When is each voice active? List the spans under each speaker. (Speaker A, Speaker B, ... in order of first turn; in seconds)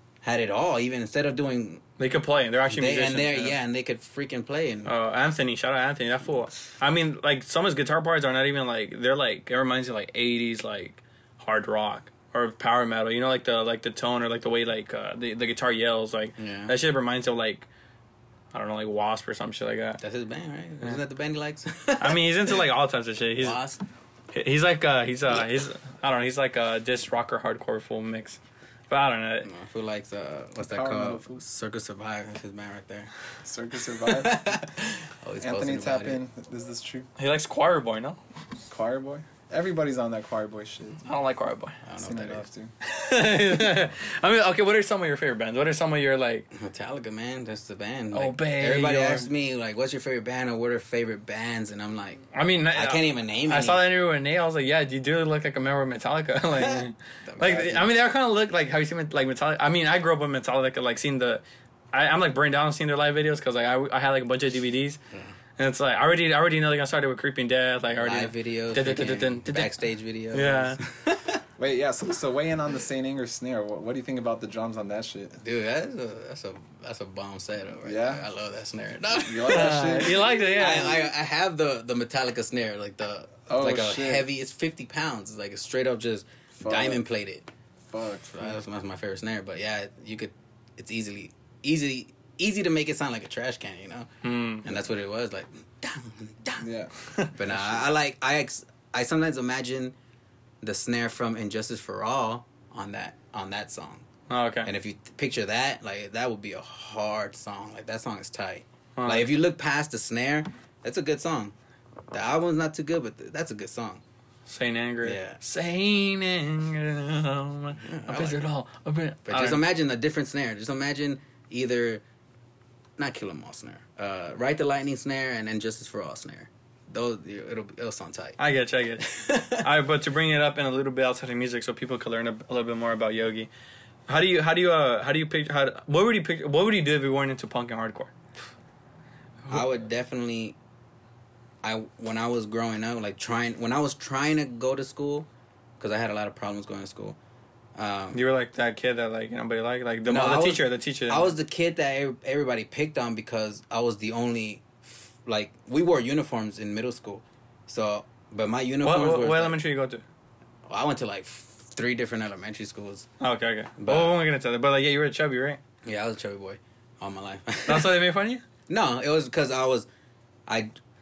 Speaker A: 0.2-1.8, 2.7-4.9, 16.4-16.7, 20.0-22.6, 23.4-23.8, 29.4-33.1, 34.0-36.2, 41.8-42.5, 46.5-53.8, 56.5-57.9, 68.0-71.4, 75.4-87.5, 88.3-94.1, 94.6-96.7, 97.3-99.9, 100.6-104.0, 104.6-111.5, 112.1-114.0, 115.0-115.4, 117.8-118.4, 119.2-122.0, 123.0-128.4, 129.0-129.7, 139.5-140.5, 141.6-145.3, 145.8-147.2, 147.8-148.2, 150.0-159.6, 160.7-163.1, 163.8-164.2, 165.8-167.9, 168.7-169.9
Speaker B: 2.0-3.6, 4.8-17.7, 18.5-20.0, 22.0-23.6, 24.3-28.4, 28.9-29.5, 37.2-38.2, 41.0-41.8, 42.8-46.5, 48.1-49.3, 52.3-65.0, 65.6-69.7, 70.3-70.8, 79.5-81.1, 94.2-94.7, 104.3-104.7, 109.0-109.3, 114.5-119.6, 128.4-133.5, 134.1-138.1, 148.1-151.3, 158.8-160.0, 163.2-165.6, 167.7-168.4
Speaker C: 30.6-31.4, 33.4-34.6, 35.4-37.1, 38.6-41.0, 42.0-42.7, 71.6-75.4, 77.8-78.2, 79.2-80.3, 83.5-84.2, 86.6-87.0, 87.8-88.6, 96.6-97.8